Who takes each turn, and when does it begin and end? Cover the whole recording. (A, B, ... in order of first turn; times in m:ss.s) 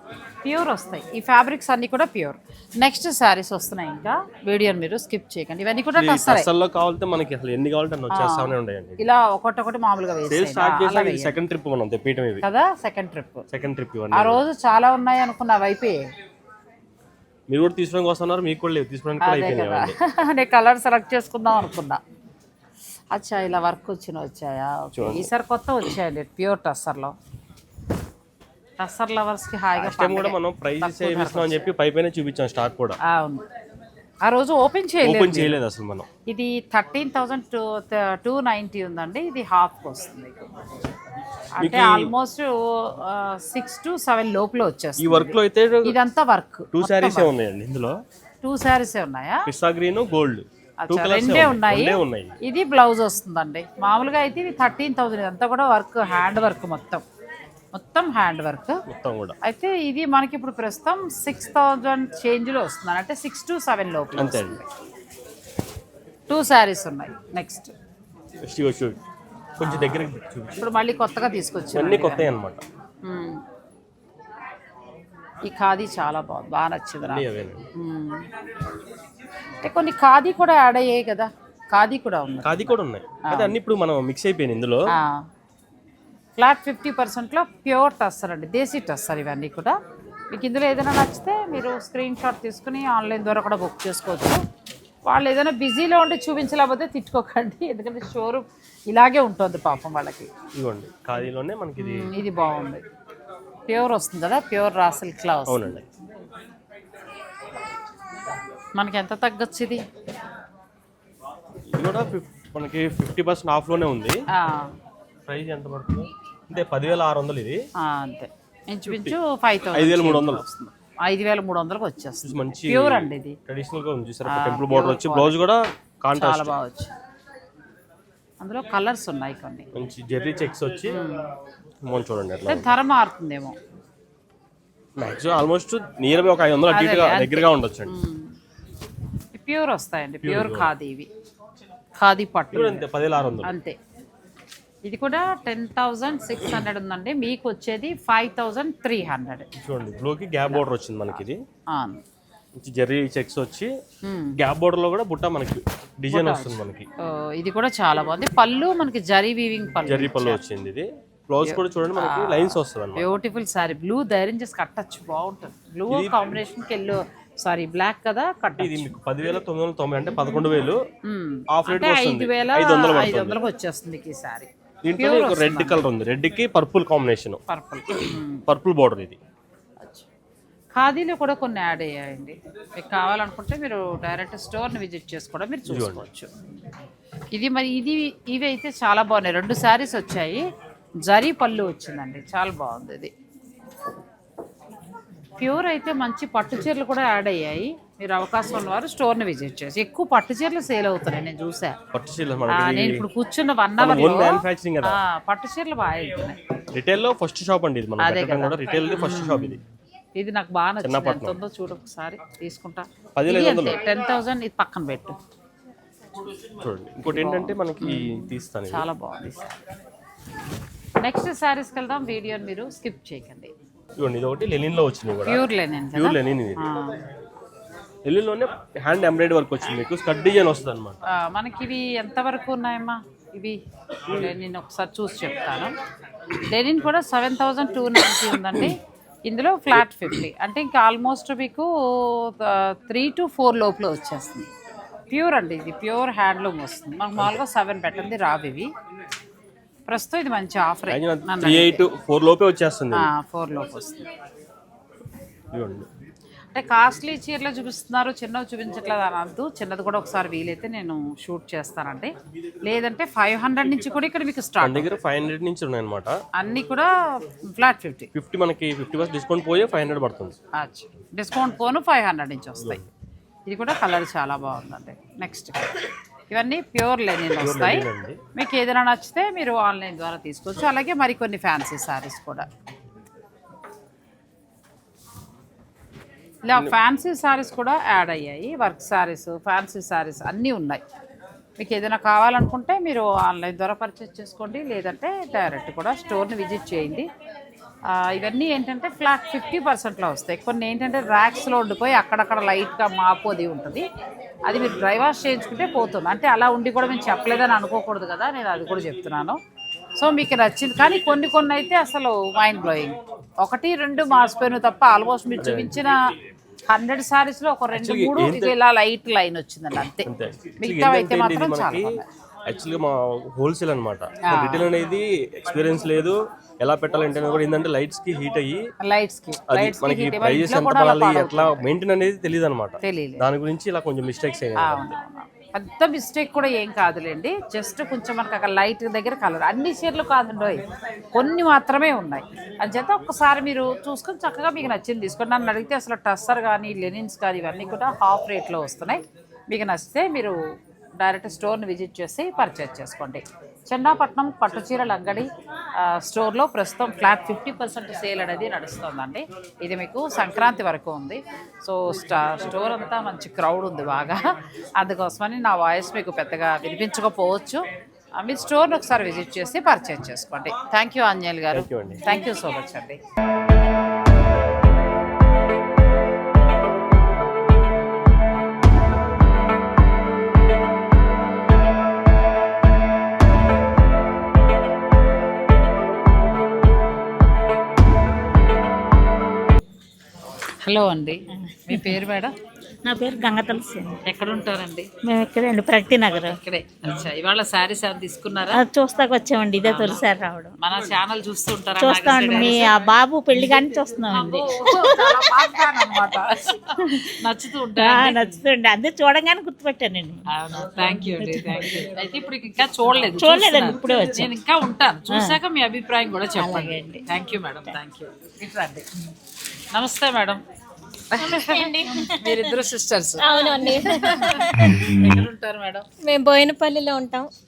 0:00.4-0:06.5 A
0:06.0-0:09.0 B
0:08.1-0:11.4 A
0:10.3-0:12.4 B
0:12.4-0:13.5 A
0:13.5-0:14.4 B
0:14.1-0:16.1 A
0:17.5-0:20.0 B
0:19.2-0:22.0 A
0:23.1-0:27.1 A
0:24.9-0:25.3 B
0:28.8-0:31.7 A
0:29.8-0:33.0 B
0:33.0-0:33.4 A
0:34.2-0:35.6 A
0:35.0-0:36.1 B
0:36.3-0:40.5 A
0:41.6-0:47.3 A
0:41.6-0:42.1 B
0:45.0-0:46.0 B
0:46.7-0:48.0 B
0:48.4-0:49.5 A
0:49.5-0:52.4 B
0:50.8-0:57.0 A
0:57.7-0:58.8 A
0:58.9-0:59.4 B
0:59.4-1:04.7 A
1:04.2-1:04.6 B
1:06.3-1:07.7 A
1:08.4-1:09.0 B
1:09.6-1:10.7 B
1:10.6-1:12.4 A
1:11.7-1:12.6 B
1:13.0-1:13.4 A
1:15.4-1:17.2 A
1:17.1-1:17.7 B
1:17.8-1:18.3 A
1:19.6-1:23.6 A
1:22.4-1:24.8 B
1:24.9-1:25.3 A
1:26.4-1:29.8 A
1:30.3-1:34.4 A
1:35.1-1:40.3 A
1:40.6-1:42.1 B
1:41.8-1:42.8 A
1:43.7-1:45.8 A
1:45.5-1:45.8 B
1:48.8-1:49.8 A
1:51.7-1:54.2 B
1:54.3-1:54.8 A
1:55.3-1:57.6 B
1:57.8-2:03.4 A
1:58.9-1:59.2 B
1:59.7-2:00.4 B
2:02.2-2:06.6 B
2:04.2-2:05.4 A
2:06.2-2:06.9 A
2:08.4-2:09.7 A
2:09.7-2:11.0 B
2:10.9-2:11.3 A
2:11.8-2:12.7 B
2:12.5-2:13.6 A
2:15.0-2:18.0 B
2:16.7-2:18.4 A
2:19.4-2:21.1 A
2:20.2-2:20.7 B
2:22.0-2:22.9 A
2:22.5-2:23.5 B
2:23.4-2:23.8 A
2:24.8-2:29.5 A
2:29.6-2:31.4 B
2:31.7-2:32.0 A
2:32.6-2:33.7 B
2:34.0-2:34.4 A
2:34.4-2:36.9 B
2:36.1-2:40.4 A
2:39.8-2:43.1 B
2:41.4-2:48.9 A
2:45.9-2:46.2 B
2:48.6-2:50.8 B
2:51.0-2:55.8 A
2:51.5-2:53.4 B
2:54.8-2:57.4 B
2:57.5-2:58.4 A
2:58.5-2:59.2 B
2:59.8-3:00.1 A
3:00.7-3:06.3 A
3:05.7-3:06.1 B
3:07.3-3:10.5 A
3:11.1-3:13.1 A
3:15.4-3:21.8 A
3:21.9-3:23.0 B
3:22.5-3:26.4 A
3:23.8-3:25.0 B
3:26.7-3:29.6 B
3:28.0-3:29.6 A
3:30.2-3:35.2 A
3:30.8-3:31.4 B
3:33.2-3:33.8 B
3:36.6-3:38.9 B
3:37.1-3:39.6 A
3:41.0-3:43.5 A
3:44.0-3:45.4 B
3:45.2-3:47.0 A
3:46.0-3:46.7 B
3:48.0-3:51.0 B
3:51.1-3:55.8 A
3:56.4-4:04.5 A
4:05.1-4:08.7 A
4:09.9-4:11.9 A
4:10.9-4:13.1 B
4:12.9-4:14.1 A
4:15.5-4:15.9 B
4:16.5-4:22.1 A
4:22.7-4:25.0 A
4:24.6-4:26.2 B
4:26.4-4:26.9 A
4:27.4-4:28.1 A
4:28.1-4:30.4 B
4:30.6-4:32.8 A
4:32.6-4:32.9 B
4:33.5-4:42.5 A
4:37.4-4:38.2 B
4:46.4-4:50.8 A
4:51.6-4:57.1 A
4:57.9-5:03.8 A
5:04.5-5:09.4 A
5:10.0-5:16.0 A
5:15.4-5:15.8 B
5:16.7-5:20.1 A
5:17.7-5:18.6 B
5:20.0-5:28.7 B
5:20.6-5:22.1 A
5:24.2-5:24.7 A
5:28.8-5:31.6 A
5:29.5-5:35.0 B
5:32.8-5:33.3 A
5:34.6-5:50.4 A
5:51.0-6:04.3 A
6:04.8-6:07.6 A
6:08.2-6:13.0 A
6:11.5-6:12.0 B
6:30.6-6:32.3 A
6:31.7-6:32.0 C
6:32.8-6:34.0 C
6:34.0-6:34.9 A
6:35.1-6:36.4 C
6:36.2-6:38.6 A
6:38.5-6:40.6 C
6:39.6-6:40.0 A
6:40.6-6:42.8 A
6:41.8-6:46.0 C
6:44.1-6:48.2 A
6:46.8-6:47.0 C
6:47.8-6:50.2 C
6:50.3-6:58.9 A
6:51.0-6:51.8 C
6:53.1-6:54.3 C
6:55.1-6:55.4 C
6:56.4-6:57.0 C
6:59.7-7:00.4 A
7:01.1-7:05.9 A
7:01.2-7:02.6 D
7:03.2-7:05.1 D
7:06.0-7:07.3 D